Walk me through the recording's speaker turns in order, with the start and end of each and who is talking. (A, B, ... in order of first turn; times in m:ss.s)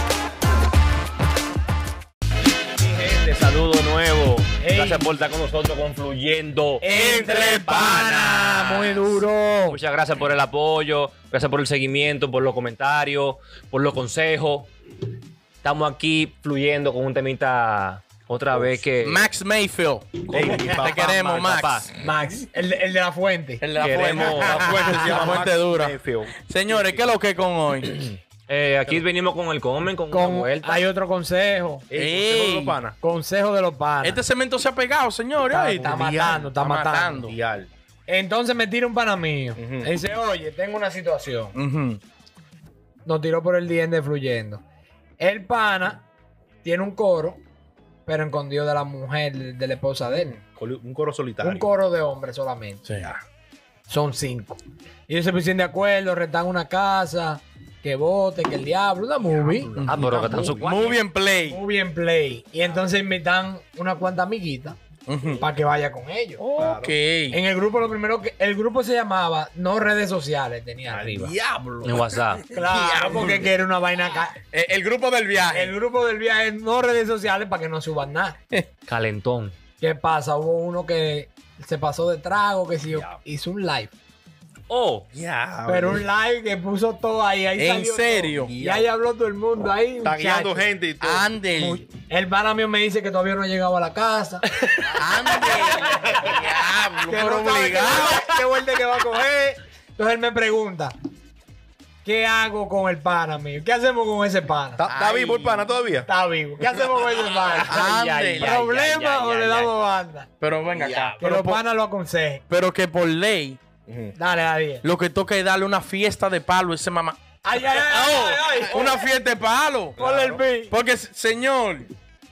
0:02.8-0:09.2 A
0:04.6-0:05.1 B
0:06.8-0:09.8 B
0:06.9-0:08.8 C
0:09.7-0:14.7 A
0:15.6-0:19.2 A
0:18.5-0:18.8 C
0:19.0-0:21.9 D
0:20.3-0:21.5 C
0:20.3-0:21.9 A
0:22.0-0:23.8 B
0:23.6-0:28.1 D
0:23.8-0:24.8 A
0:24.1-0:27.1 C
0:28.5-0:30.8 A
0:30.1-0:31.9 B
0:31.9-0:33.0 C
0:31.9-0:32.8 D
0:33.0-0:34.2 B
0:34.0-0:37.4 D
0:35.5-0:37.3 B
0:35.8-0:36.5 C
0:37.2-0:37.7 C
0:38.1-0:41.6 B
0:39.6-0:39.9 C
0:41.5-0:42.0 D
0:43.0-0:44.6 B
0:45.2-0:46.1 B
0:46.6-0:47.4 B
0:48.0-0:50.4 B
0:50.1-0:51.7 C
0:51.4-0:52.8 B
0:52.8-0:53.1 D
0:53.9-0:59.7 B
0:59.3-1:00.6 C
0:59.7-1:01.6 D
0:59.9-1:01.0 A
1:01.5-1:04.8 B
1:05.1-1:05.4 D
1:05.4-1:06.4 B
1:06.5-1:07.4 D
1:06.6-1:07.0 C
1:07.3-1:11.3 B
1:10.9-1:12.2 C
1:11.8-1:12.5 A
1:12.5-1:14.4 B
1:12.6-1:13.5 D
1:14.5-1:15.7 D
1:15.5-1:18.4 B
1:18.8-1:19.6 A
1:19.8-1:23.9 B
1:24.7-1:25.0 A
1:25.1-1:26.0 C
1:25.6-1:30.7 B
1:27.6-1:28.5 D
1:28.4-1:28.9 C
1:30.0-1:31.3 C
1:31.0-1:31.8 D
1:31.5-1:36.4 B
1:34.9-1:35.6 C
1:34.9-1:38.3 D
1:37.0-1:41.0 B
1:42.0-1:44.8 B
1:44.8-1:46.1 C
1:44.8-1:45.7 D
1:46.0-1:50.3 B
1:47.5-1:49.7 A
1:47.6-1:48.8 D
1:50.4-1:51.6 D
1:50.8-1:51.1 C
1:51.2-1:52.4 B
1:52.5-1:53.6 D
1:53.9-1:54.1 C
1:54.1-1:54.8 B
1:54.8-1:57.2 D
1:57.4-1:59.1 B
1:57.8-1:58.6 A
1:58.6-2:00.0 D
2:00.0-2:00.4 C
2:00.0-2:00.7 B
2:00.6-2:01.9 D